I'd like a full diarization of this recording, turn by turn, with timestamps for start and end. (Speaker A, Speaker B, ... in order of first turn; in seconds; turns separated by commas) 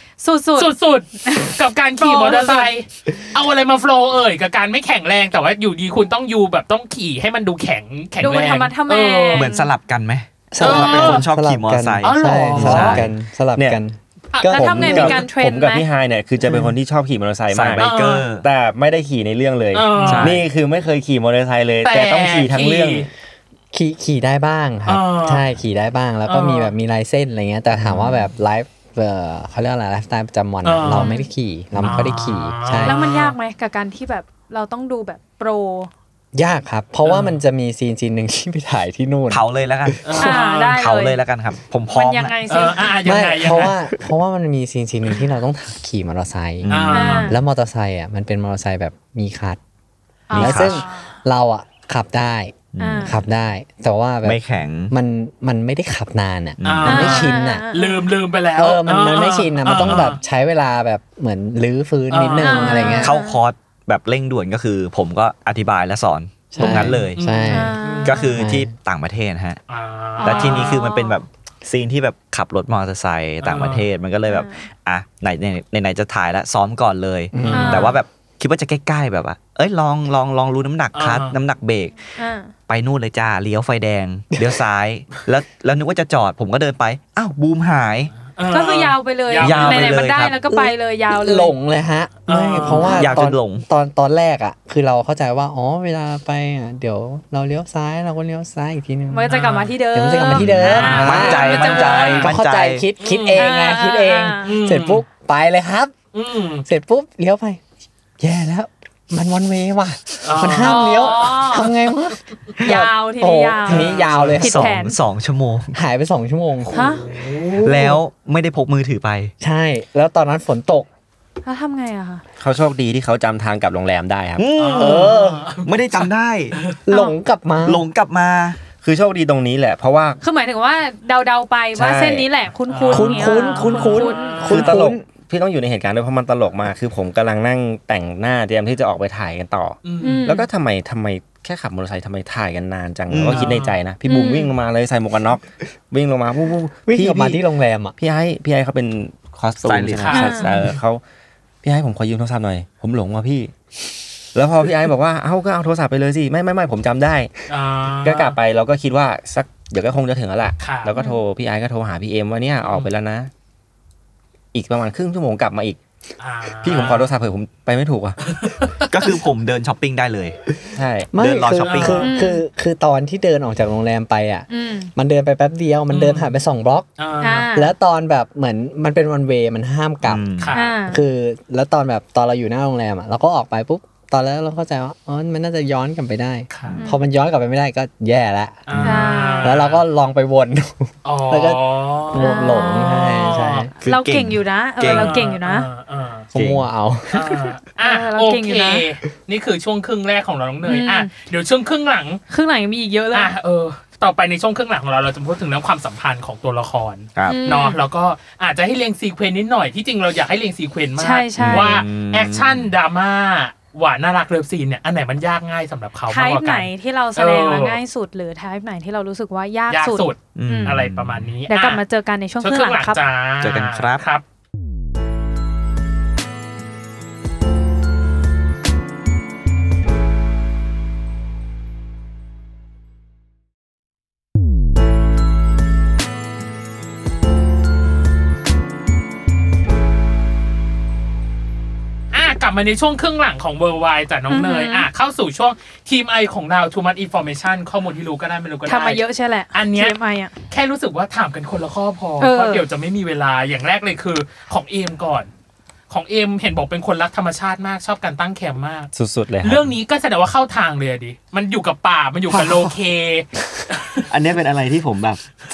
Speaker A: 0.2-0.7, Speaker B: 0.6-9.5, Speaker A: 1.2-2.7, Speaker A: 8.2-9.7, Speaker C: 9.3-13.1, Speaker D: 10.5-15.2, Speaker B: 10.6-11.3, Speaker B: 12.0-13.0, Speaker E: 12.6-13.8, Speaker B: 14.3-15.2, Speaker A: 14.5-15.9, Speaker E: 14.5-17.9, Speaker C: 17.5-18.5, Speaker B: 17.8-18.3, Speaker E: 18.4-23.1, Speaker B: 19.7-20.4, Speaker C: 20.0-20.4, Speaker B: 21.8-23.1, Speaker D: 23.7-33.0, Speaker B: 24.9-25.5, Speaker B: 26.3-26.7, Speaker B: 30.6-31.1, Speaker A: 30.9-31.3, Speaker B: 31.8-33.4, Speaker A: 32.8-35.9, Speaker D: 36.3-40.0, Speaker B: 37.0-37.4, Speaker C: 39.3-42.4, Speaker B: 40.0-40.8, Speaker A: 40.1-41.2, Speaker A: 41.9-42.9, Speaker B: 42.5-43.8, Speaker D: 43.0-46.7, Speaker C: 46.6-47.2, Speaker B: 46.7-47.3, Speaker A: 46.9-47.4, Speaker D: 47.3-49.6, Speaker A: 50.3-51.1, Speaker C: 50.4-50.8, Speaker D: 50.4-54.4, Speaker B: 50.4-50.8, Speaker C: 52.7-53.2, Speaker A: 52.8-53.2, Speaker C: 54.2-54.9, Speaker D: 54.9-57.7, Speaker C: 56.6-57.1, Speaker B: 56.6-60.2, Speaker A: 56.9-58.1, Speaker D: 58.6-63.1, Speaker B: 62.1-63.1, Speaker A: 62.4-63.4, Speaker C: 63.0-67.2, Speaker D: 66.5-67.8, Speaker B: 66.6-68.3, Speaker A: 67.2-68.3, Speaker C: 68.0-69.6, Speaker D: 68.3-68.7, Speaker B: 69.7-70.8, Speaker A: 70.2-71.2, Speaker C: 70.2-82.0, Speaker B: 73.4-73.9, Speaker A: 74.3-74.7, Speaker D: 77.3-77.8, Speaker B: 77.5-77.9, Speaker A: 77.5-78.0, Speaker B: 81.0-81.4, Speaker A: 82.2-82.5, Speaker C: 82.7-88.2, Speaker B: 88.2-90.1, Speaker A: 88.5-91.5, Speaker C: 89.4-90.4, Speaker D: 90.5-99.3, Speaker B: 92.3-93.0, Speaker A: 92.7-93.1, Speaker C: 93.0-93.7, Speaker A: 99.1-102.3, Speaker B: 99.3-99.8, Speaker D: 99.9-106.0, Speaker C: 100.4-102.9, Speaker B: 100.6-102.3, Speaker B: 103.0-103.5, Speaker A: 103.3-104.5, Speaker B: 104.5-105.0, Speaker B: 106.1-106.7, Speaker D: 106.7-107.6, Speaker D: 108.2-114.7, Speaker B: 110.2-111.7, Speaker A: 110.5-111.7, Speaker A: 112.6-115.0, Speaker B: 113.7-114.4, Speaker C: 114.2-115.7, Speaker D: 115.7-116.8, Speaker A: 116.7-117.0, Speaker B: 116.7-117.8, Speaker D: 117.6-118.0, Speaker C: 117.6-119.3, Speaker D: 119.4-120.9, Speaker A: 121.4-122.2, Speaker E: 122.4-125.1, Speaker C: 124.4-126.6, Speaker B: 124.6-126.8, Speaker D: 126.9-127.8, Speaker C: 127.6-128.6, Speaker E: 128.8-130.2, Speaker A: 130.2-134.5, Speaker E: 131.8-132.3, Speaker B: 132.7-134.8, Speaker D: 132.9-135.1, Speaker E: 134.5-147.4, Speaker B: 139.8-140.4, Speaker A: 140.0-140.4, Speaker C: 143.1-143.6, Speaker B: 143.3-143.8, Speaker A: 144.1-144.5, Speaker D: 146.9-148.0, Speaker E: 148.0-151.0, Speaker C: 149.6-150.3, Speaker B: 150.0-150.8, Speaker A: 150.1-150.5, Speaker E: 151.6-153.5, Speaker E: 154.3-157.3, Speaker B: 157.5-158.4, Speaker E: 158.0-163.3, Speaker B: 160.6-160.9, Speaker A: 160.9-161.2, Speaker B: 162.6-162.9, Speaker E: 164.5-165.8, Speaker B: 166.2-167.2, Speaker E: 166.6-168.2, Speaker B: 168.2-169.0, Speaker C: 168.9-170.4, Speaker E: 170.7-171.1, Speaker D: 171.1-176.9, Speaker C: 171.2-172.1, Speaker B: 171.6-172.1, Speaker A: 171.9-172.4, Speaker A: 174.5-174.9, Speaker B: 175.9-176.4, Speaker B: 177.0-177.5, Speaker A: 177.2-177.7, Speaker D: 177.5-180.2, Speaker C: 180.1-180.6, Speaker B: 180.4-180.7, Speaker A: 180.5-181.0, Speaker D: 180.9-193.7, Speaker B: 186.5-186.8, Speaker A: 186.8-187.0, Speaker B: 188.7-189.8, Speaker C: 188.7-189.0, Speaker A: 188.8-189.5, Speaker B: 191.0-193.7, Speaker A: 192.2-193.3, Speaker C: 193.8-195.2, Speaker A: 193.8-195.7, Speaker B: 194.8-196.3, Speaker C: 196.3-196.7, Speaker D: 196.3-197.3, Speaker B: 197.1-202.2, Speaker A: 197.8-198.9, Speaker A: 200.6-201.1, Speaker A: 202.3-203.3, Speaker B: 203.1-217.8, Speaker C: 207.2-207.5, Speaker A: 207.2-207.8, Speaker A: 211.0-211.8, Speaker C: 211.4-212.7, Speaker A: 216.1-220.8, Speaker B: 219.7-221.8, Speaker C: 220.3-221.3, Speaker A: 221.5-223.0, Speaker B: 222.4-224.2, Speaker C: 223.4-224.0, Speaker B: 242.1-250.0, Speaker A: 244.3-244.9, Speaker A: 248.7-250.4, Speaker B: 250.5-255.3, Speaker A: 252.2-252.7, Speaker B: 255.9-264.1, Speaker E: 258.9-259.7, Speaker E: 264.1-265.2